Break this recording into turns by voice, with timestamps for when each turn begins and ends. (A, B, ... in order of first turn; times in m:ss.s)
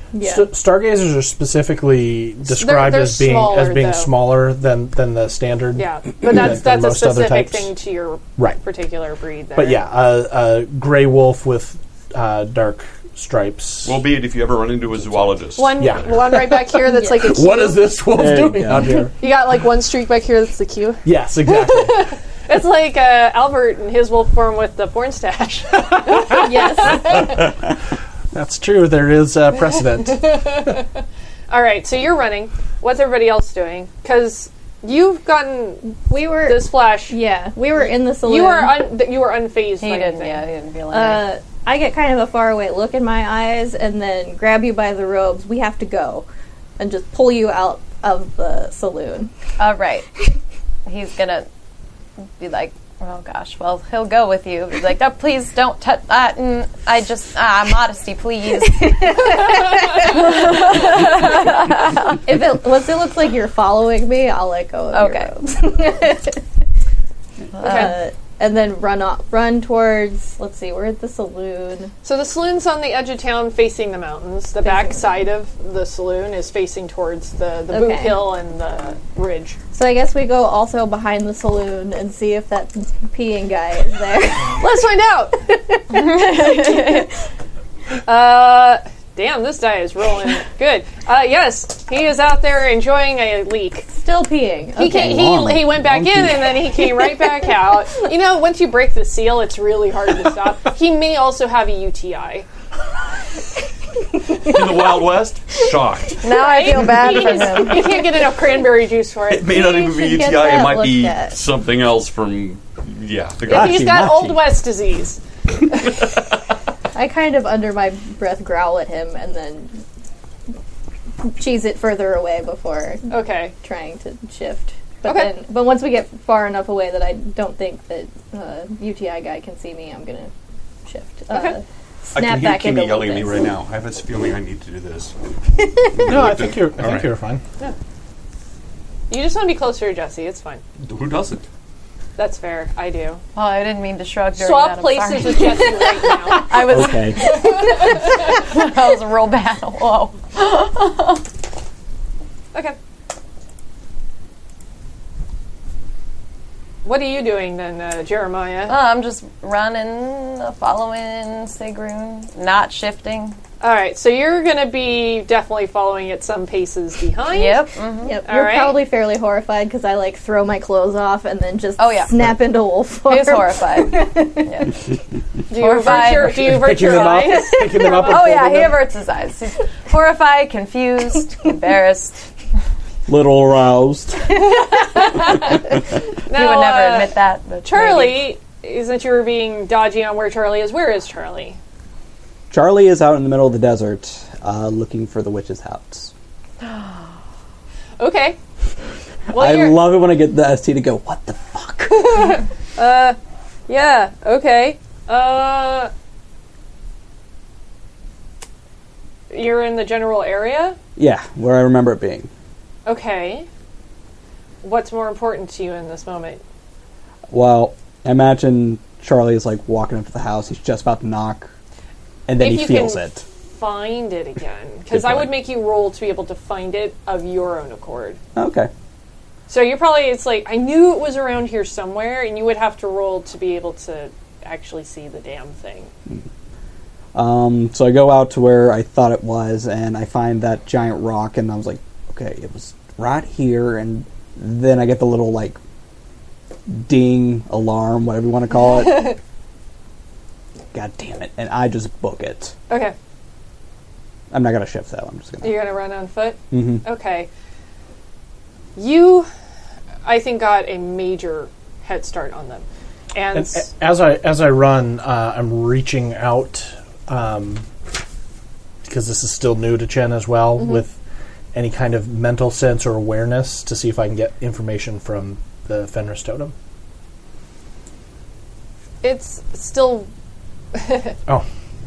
0:00.1-0:00.5 A
0:00.2-0:07.7 B
0:02.5-0:04.1 C
0:05.8-0:09.8 C
0:09.5-0:14.0 B
0:13.8-0:16.3 D
0:15.6-0:17.9 C
0:15.8-0:16.5 B
0:17.2-0:19.2 B
0:18.1-0:19.0 E
0:19.2-0:27.4 C
0:21.0-0:22.1 B
0:25.9-0:26.5 B
0:26.4-0:27.4 A
0:27.1-0:27.5 B
0:28.3-0:30.7 B
0:30.0-0:37.2 C
0:36.1-0:38.8 A
0:37.8-0:40.4 C
0:39.8-0:41.3 F
0:40.9-0:46.2 A
0:46.8-0:49.3 A
0:49.6-0:50.0 F
0:50.8-0:51.5 F
0:52.4-0:59.4 F
0:58.6-1:01.3 A
1:00.0-1:02.2 F
1:02.1-1:06.4 A
1:04.9-1:05.3 F
1:07.5-1:08.0 F
1:07.6-1:11.9 A
1:07.6-1:08.0 C
1:12.0-1:19.6 C
1:14.6-1:15.0 A
1:17.7-1:18.3 A
1:19.7-1:24.6 A
1:24.5-1:25.6 C
1:25.9-1:27.0 F
1:26.0-1:26.9 A
1:28.0-1:33.9 C
1:33.9-1:35.3 A
1:34.8-1:42.4 C
1:34.8-1:36.7 E
1:44.4-1:46.2 D
1:46.2-1:48.0 F
1:46.3-1:49.5 C
1:49.3-1:53.9 D
1:49.5-1:51.4 A
1:53.5-1:54.4 E
1:53.5-1:55.2 C
1:56.9-1:59.8 A
2:01.2-2:03.1 A
2:03.1-2:03.5 C
2:03.6-2:10.3 A
2:05.0-2:05.3 C
2:10.8-2:13.6 A
2:11.3-2:11.6 C
2:12.1-2:15.2 D
2:15.9-2:17.1 D
2:16.0-2:17.4 B
2:19.1-2:20.6 C
2:20.8-2:21.4 D
2:22.2-2:23.2 C
2:23.3-2:31.2 F
2:24.4-2:26.7 C
2:26.6-2:27.2 E
2:36.8-2:38.7 C
2:38.7-2:43.4 F
2:43.6-2:47.7 C
2:47.3-2:48.2 F
2:48.0-2:54.6 A
2:48.2-2:48.8 C
2:51.8-2:52.3 F
2:53.0-2:54.7 F
2:55.5-2:58.3 C
2:55.5-2:57.2 F
2:56.0-2:58.8 B
2:57.9-3:02.2 F
3:03.1-3:04.4 E
3:06.2-3:07.1 C
3:06.3-3:08.3 F
3:07.6-3:11.6 C
3:12.5-3:16.1 E
3:18.0-3:18.4 C
3:19.3-3:22.3 E
3:19.3-3:19.8 C
3:21.9-3:23.2 C
3:23.7-3:25.9 C
3:29.3-3:30.8 C
3:31.0-3:32.3 E
3:32.8-3:33.5 C
3:34.6-3:36.4 C
3:37.3-3:41.5 E
3:42.3-3:43.2 E
3:42.4-3:48.2 C
3:44.9-3:45.3 E
3:48.4-3:48.7 E
3:49.5-3:55.9 C
3:57.1-4:05.6 E
4:06.7-4:09.2 E
4:08.5-4:09.2 C
4:10.7-4:12.5 E
4:12.7-4:12.9 C
4:14.3-4:15.7 E
4:15.4-4:17.3 C
4:16.5-4:16.8 E
4:18.8-4:19.3 C
4:20.0-4:23.7 C
4:23.3-4:27.6 B
4:28.8-4:31.0 B
4:31.5-4:36.5 B
4:39.0-4:40.1 C
4:40.7-4:41.2 C